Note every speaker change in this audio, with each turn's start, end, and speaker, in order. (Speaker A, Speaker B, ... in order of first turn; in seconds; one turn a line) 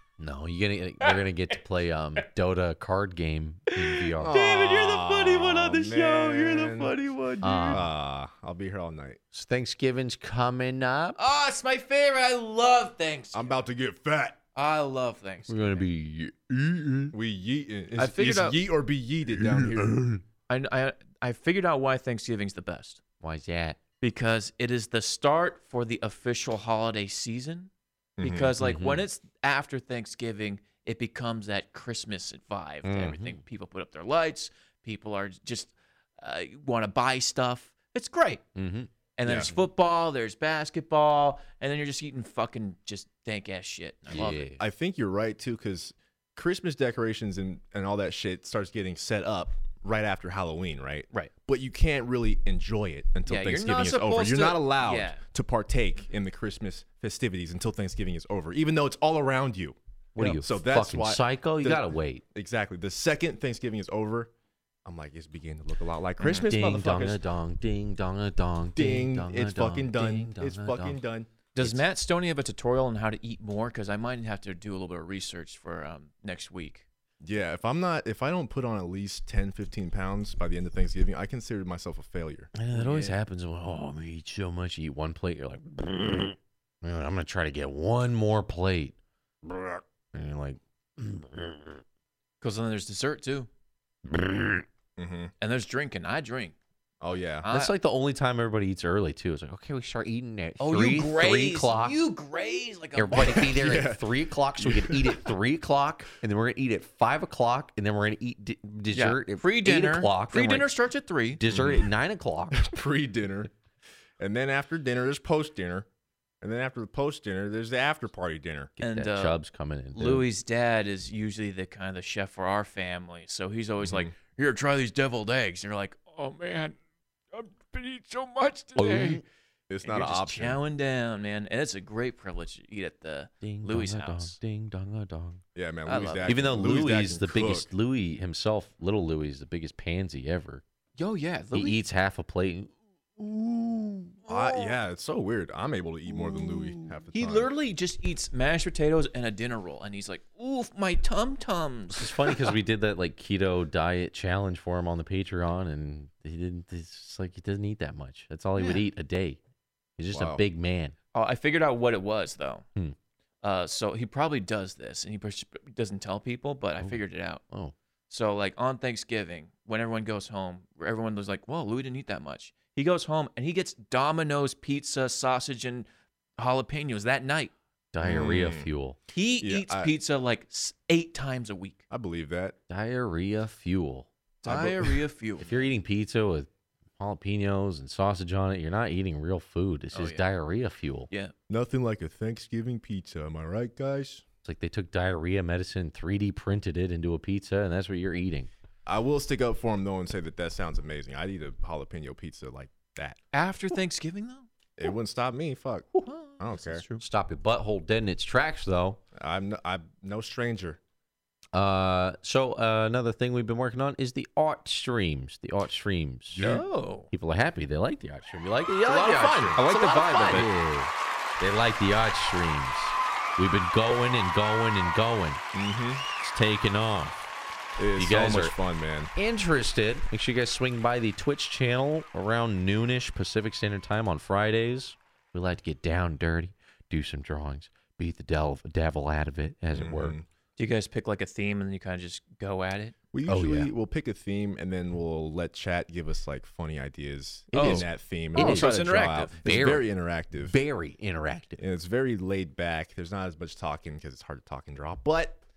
Speaker A: 0.2-4.4
Speaker B: 3.8-7.8
Speaker C: 4.2-7.1
Speaker A: 7.4-7.9
Speaker C: 7.7-9.2
Speaker A: 9.3-11.2
Speaker B: 11.2-13.6
Speaker C: 13.3-14.4
Speaker B: 14.6-15.8
Speaker A: 15.5-17.1
Speaker C: 17.1-20.0
Speaker B: 18.0-18.6
Speaker A: 19.9-20.2
Speaker B: 20.5-23.0
Speaker A: 23.2-23.8
Speaker B: 24.0-38.4
Speaker C: 28.2-28.5
Speaker A: 28.6-29.1
Speaker A: 32.8-33.4
Speaker A: 38.5-39.6
Speaker B: 39.2-44.5
Speaker C: 39.2-39.5
Speaker A: 44.1-44.6
Speaker C: 44.6-64.3
Speaker B: 53.3-55.2
Speaker A: 60.2-62.2
Speaker C: 64.8-67.2
Speaker A: 66.3-71.0
Speaker C: 68.8-71.3
Speaker B: 71.5-76.9
Speaker C: 77.2-82.5
Speaker A: 82.5-91.8
Speaker B: 82.7-83.1
Speaker B: 92.4-93.5
Speaker A: 94.0-94.6
Speaker C: 95.0-95.3
Speaker B: 95.4-96.6
Speaker C: 97.0-97.5
Speaker B: 97.4-97.8
Speaker A: 97.5-102.0
Speaker B: 100.6-103.6
Speaker A: 103.0-110.7
Speaker C: 103.2-105.3
Speaker B: 108.9-111.4
Speaker A: 111.4-112.7
Speaker C: 111.5-111.9
Speaker C: 112.5-113.5
Speaker C: 114.2-115.9
Speaker C: 116.4-118.7
Speaker A: 118.8-120.3
Speaker B: 118.8-119.4
Speaker B: 120.0-126.8
Speaker C: 123.8-124.1
Speaker B: 127.3-129.2
Speaker A: 128.8-129.2
Speaker C: 129.7-130.6
Speaker B: 129.8-134.4
Speaker A: 133.4-135.4
Speaker C: 135.6-137.7
Speaker B: 135.9-136.3
Speaker A: 136.3-140.6
Speaker B: 141.0-141.8
Speaker A: 141.5-142.7
Speaker B: 143.2-144.8
Speaker C: 144.3-147.5
Speaker B: 146.2-152.6
Speaker A: 151.9-159.4
Speaker B: 158.6-158.8
Speaker A: 160.0-160.9
Speaker C: 160.1-160.4
Speaker B: 161.1-162.6
Speaker B: 163.4-167.4
Speaker A: 166.8-167.7
Speaker B: 168.1-175.9
Speaker B: 176.4-177.5
Speaker A: 177.9-179.0
Speaker C: 178.0-178.7
Speaker B: 179.1-181.8
Speaker C: 179.4-179.9
Speaker C: 181.9-182.6
Speaker A: 182.7-184.1
Speaker B: 184.4-185.7
Speaker C: 184.4-185.0
Speaker A: 185.4-191.1
Speaker B: 189.9-190.2
Speaker C: 191.5-194.2
Speaker A: 194.4-198.5
Speaker C: 198.9-203.2
Speaker B: 203.3-204.5
Speaker C: 204.8-206.8
Speaker B: 206.0-207.0
Speaker A: 207.0-209.0
Speaker C: 209.1-210.8
Speaker A: 211.5-216.6
Speaker C: 216.3-216.6
Speaker B: 216.4-217.1
Speaker A: 217.1-225.4
Speaker B: 218.8-220.5
Speaker C: 225.5-226.0
Speaker A: 226.2-227.2
Speaker C: 227.8-229.1
Speaker A: 227.9-228.6
Speaker A: 229.1-240.2
Speaker C: 239.7-240.3
Speaker B: 240.6-243.0
Speaker C: 243.1-250.6
Speaker A: 243.3-243.7
Speaker B: 247.5-249.7
Speaker A: 247.5-251.6
Speaker C: 251.6-255.4